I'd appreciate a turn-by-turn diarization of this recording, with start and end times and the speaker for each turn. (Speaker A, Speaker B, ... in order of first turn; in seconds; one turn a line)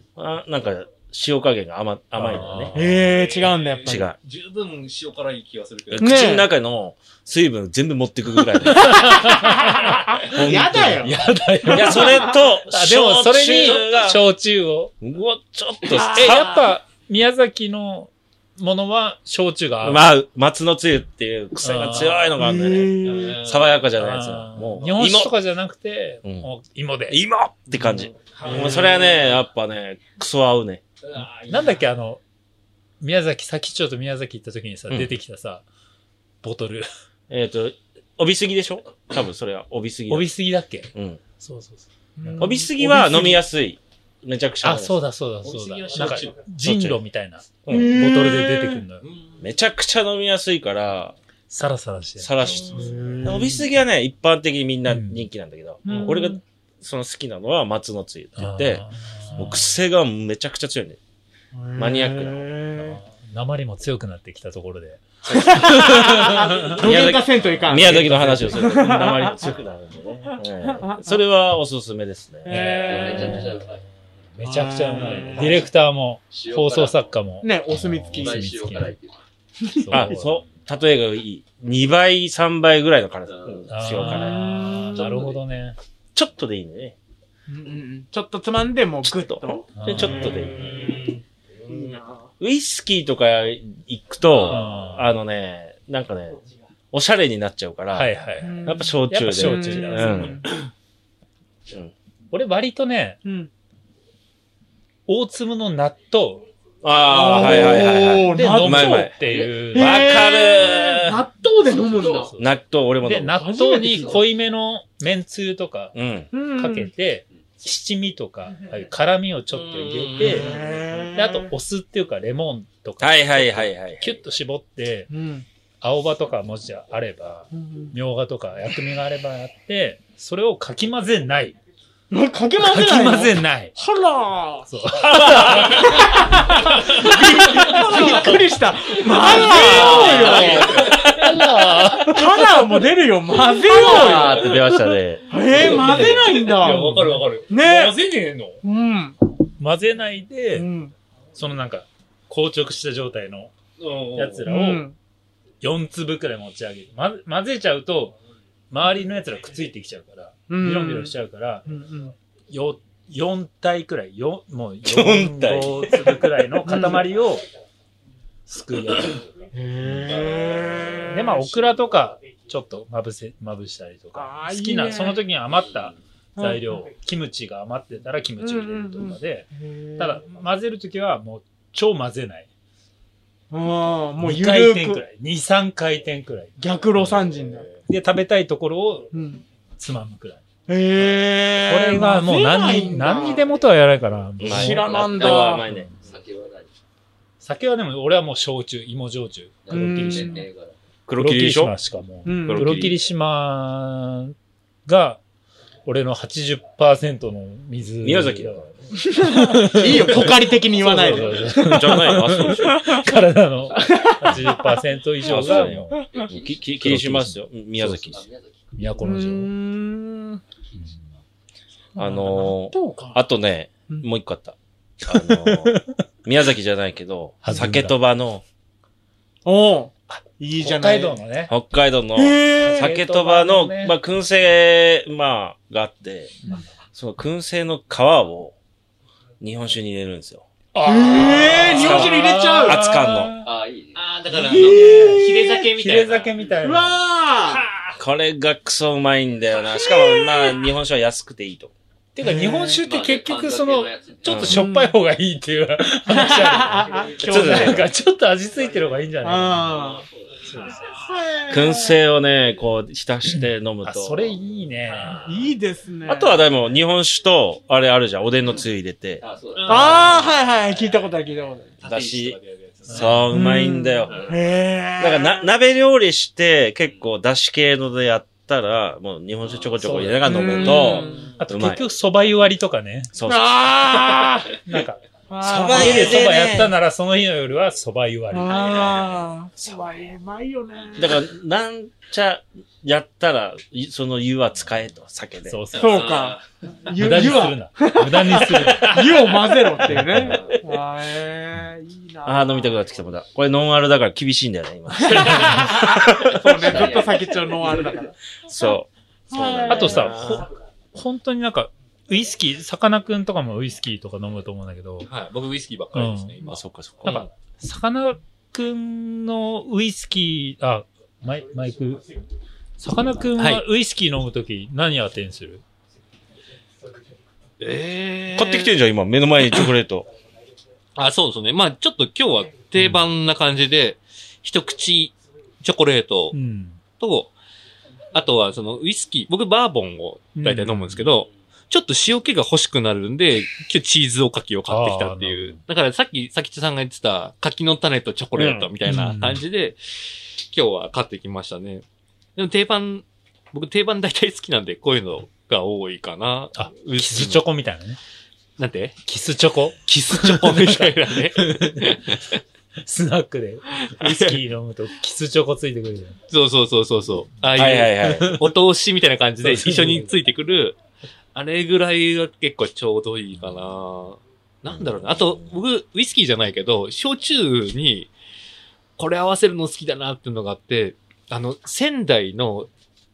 Speaker A: 0.1-2.7
Speaker B: 2.1-3.1
Speaker C: 2.7-4.1
Speaker D: 3.1-6.1
Speaker A: 3.8-4.2
Speaker A: 5.9-9.1
Speaker C: 6.0-6.5
Speaker B: 8.3-14.9
Speaker C: 8.9-11.2
Speaker A: 10.2-11.1
Speaker A: 11.7-14.2
Speaker C: 11.7-12.3
Speaker A: 15.0-16.6
Speaker C: 15.9-16.7
Speaker B: 16.0-20.1
Speaker A: 19.8-25.3
Speaker B: 21.6-22.3
Speaker C: 22.4-23.4
Speaker D: 23.1-23.7
Speaker B: 23.9-27.2
Speaker A: 27.1-30.8
Speaker B: 27.7-28.5
Speaker C: 28.5-28.8
Speaker D: 31.1-31.6
Speaker B: 31.2-32.2
Speaker B: 33.0-35.6
Speaker B: 36.4-36.9
Speaker A: 37.3-40.3
Speaker B: 40.1-42.6
Speaker A: 40.9-41.2
Speaker C: 42.2-43.4
Speaker A: 42.4-45.0
Speaker B: 44.6-49.0
Speaker D: 45.4-46.4
Speaker A: 46.6-47.9
Speaker C: 47.7-48.8
Speaker D: 49.0-49.4
Speaker A: 49.4-51.1
Speaker B: 51.5-52.7
Speaker A: 52.2-58.8
Speaker C: 52.6-53.6
Speaker B: 54.9-55.3
Speaker C: 55.8-56.4
Speaker B: 58.4-59.8
Speaker A: 59.4-61.0
Speaker C: 61.5-63.0
Speaker A: 61.8-62.5
Speaker B: 62.7-66.7
Speaker A: 65.2-66.0
Speaker C: 65.3-69.4
Speaker A: 66.7-72.5
Speaker B: 67.7-68.7
Speaker C: 70.2-71.0
Speaker C: 72.4-73.4
Speaker B: 72.5-79.0
Speaker E: 72.7-73.8
Speaker C: 74.4-75.6
Speaker A: 75.0-75.7
Speaker E: 76.3-77.1
Speaker C: 77.4-78.5
Speaker E: 78.1-79.2
Speaker B: 79.7-80.6
Speaker A: 79.9-84.5
Speaker E: 83.3-83.7
Speaker B: 83.7-85.8
Speaker C: 84.0-85.2
Speaker E: 85.0-85.3
Speaker A: 86.1-86.9
Speaker C: 87.5-91.0
Speaker A: 89.0-90.7
Speaker B: 89.7-90.5
Speaker C: 91.7-92.3
Speaker A: 92.4-96.4
Speaker B: 94.4-95.1
Speaker A: 96.9-98.1
Speaker B: 97.9-100.4
Speaker C: 98.4-100.5
Speaker A: 98.6-100.4
Speaker A: 101.7-101.9
Speaker B: 102.3-103.2
Speaker C: 103.2-103.5
Speaker B: 105.1-106.5
Speaker A: 106.8-109.2
Speaker C: 107.1-109.0
Speaker B: 107.3-110.2
Speaker E: 109.2-109.6
Speaker A: 109.7-111.2
Speaker C: 109.7-112.3
Speaker E: 111.8-112.3
Speaker B: 112.1-112.5
Speaker A: 112.3-113.4
Speaker B: 113.0-115.9
Speaker C: 113.3-114.2
Speaker A: 115.9-116.3
Speaker C: 116.3-116.9
Speaker B: 116.5-120.5
Speaker D: 119.5-120.8
Speaker C: 120.2-121.5
Speaker B: 121.1-125.1
Speaker A: 123.0-124.1
Speaker C: 125.1-125.5
Speaker B: 125.8-131.6
Speaker C: 127.5-127.9
Speaker C: 132.1-134.7
Speaker B: 132.6-133.8
Speaker B: 134.7-136.1
Speaker C: 135.4-141.1
Speaker D: 137.0-138.2
Speaker B: 137.5-138.3
Speaker D: 139.0-141.4
Speaker B: 139.3-140.3
Speaker B: 141.0-142.6
Speaker C: 141.9-144.5
Speaker D: 143.6-144.7
Speaker A: 143.8-145.2
Speaker C: 145.3-148.0
Speaker D: 145.5-148.6
Speaker B: 146.7-147.2
Speaker C: 148.6-149.2
Speaker B: 149.6-150.7
Speaker C: 150.5-150.9
Speaker B: 151.3-153.5
Speaker D: 153.8-154.4
Speaker B: 154.1-154.8
Speaker C: 154.4-154.9
Speaker B: 155.6-158.2
Speaker B: 158.7-161.7
Speaker C: 160.5-161.1
Speaker C: 161.7-162.1
Speaker B: 162.5-167.4
Speaker A: 164.8-166.4
Speaker C: 166.7-167.1
Speaker B: 168.5-169.2
Speaker C: 169.5-171.7
Speaker D: 170.3-170.8
Speaker B: 171.1-182.5
Speaker C: 174.1-175.2
Speaker C: 176.4-176.8
Speaker C: 178.4-180.2
Speaker C: 183.5-185.0
Speaker B: 184.2-187.2
Speaker C: 186.6-187.7
Speaker B: 187.9-189.1
Speaker C: 189.1-189.4
Speaker B: 189.8-190.4
Speaker C: 190.7-193.6
Speaker B: 191.7-194.8
Speaker A: 194.4-195.9
Speaker C: 194.4-195.7
Speaker E: 194.8-196.7
Speaker B: 197.4-200.4
Speaker E: 199.7-200.8
Speaker C: 199.7-200.5
Speaker A: 201.1-201.8
Speaker B: 201.2-204.3
Speaker C: 202.2-202.7
Speaker A: 202.5-203.0
Speaker B: 204.8-205.2
Speaker B: 205.8-216.0
Speaker A: 208.0-208.7
Speaker C: 209.0-213.1
Speaker A: 210.9-212.9
Speaker E: 213.6-214.5
Speaker C: 213.8-216.2
Speaker A: 215.2-218.2
Speaker E: 216.1-216.8
Speaker B: 216.8-218.2
Speaker E: 218.1-219.0
Speaker B: 218.7-219.5
Speaker C: 219.0-220.4
Speaker B: 220.7-221.1
Speaker C: 221.9-223.2
Speaker A: 222.0-224.6
Speaker A: 225.1-228.4
Speaker B: 225.1-225.9
Speaker B: 227.4-228.0
Speaker C: 229.4-231.2
Speaker B: 230.1-231.5
Speaker A: 231.5-236.3
Speaker C: 232.2-232.8
Speaker B: 232.5-234.0
Speaker A: 236.9-238.5
Speaker A: 239.4-240.4
Speaker B: 240.7-243.5
Speaker C: 240.8-242.8
Speaker A: 241.5-243.3
Speaker E: 243.4-244.1
Speaker D: 243.9-246.3
Speaker C: 244.3-246.0
Speaker B: 244.8-245.2
Speaker B: 245.7-246.9
Speaker C: 246.6-247.6
Speaker B: 247.5-247.9
Speaker A: 248.0-251.7
Speaker C: 249.8-250.6
Speaker B: 252.1-259.8
Speaker C: 252.2-252.8
Speaker E: 252.8-254.5
Speaker A: 254.2-254.6
Speaker C: 254.5-254.9
Speaker C: 256.1-257.8
Speaker A: 257.2-257.9
Speaker C: 259.2-260.0
Speaker B: 260.4-261.1
Speaker C: 261.0-262.0
Speaker A: 261.5-264.3
Speaker B: 263.8-265.2
Speaker C: 265.1-266.4
Speaker A: 266.1-269.2
Speaker E: 269.2-270.1
Speaker D: 269.6-270.4
Speaker C: 269.6-271.8
Speaker D: 271.8-273.1
Speaker A: 271.8-274.2
Speaker B: 272.9-273.2
Speaker C: 273.3-275.5
Speaker A: 275.0-281.8
Speaker E: 279.4-279.9
Speaker B: 279.8-283.1
Speaker C: 280.2-281.3
Speaker A: 283.1-283.5
Speaker C: 283.3-284.6
Speaker B: 284.5-285.0
Speaker C: 285.3-286.3
Speaker A: 285.4-286.7
Speaker B: 285.7-288.5
Speaker C: 288.3-291.2
Speaker A: 288.6-290.0
Speaker A: 290.9-295.6
Speaker B: 295.4-296.0
Speaker C: 295.7-302.8
Speaker E: 295.9-296.4
Speaker B: 297.0-300.4
Speaker A: 302.2-306.2
Speaker C: 305.0-308.1
Speaker E: 306.6-307.1
Speaker A: 308.5-310.5
Speaker C: 309.3-310.1
Speaker B: 309.7-315.1
Speaker D: 315.0-317.2
Speaker B: 315.9-316.4
Speaker A: 316.5-317.2
Speaker B: 317.0-322.0
Speaker B: 322.8-325.6
Speaker D: 323.4-323.6
Speaker D: 327.6-328.7
Speaker A: 328.3-330.1
Speaker D: 330.9-336.4
Speaker B: 332.8-333.1
Speaker B: 336.3-336.8
Speaker D: 337.0-337.3
Speaker D: 338.1-349.8
Speaker B: 340.3-341.1
Speaker B: 344.7-345.6
Speaker A: 348.3-348.7
Speaker B: 348.9-349.4
Speaker D: 350.5-351.8
Speaker D: 352.4-357.4
Speaker B: 356.5-358.0
Speaker D: 358.6-359.0
Speaker B: 359.1-361.8
Speaker D: 359.9-362.4
Speaker B: 362.9-366.2
Speaker D: 364.0-364.4
Speaker D: 366.3-370.8
Speaker A: 367.5-368.4
Speaker B: 369.4-370.1
Speaker D: 371.3-378.1
Speaker A: 374.6-375.6
Speaker D: 379.0-382.7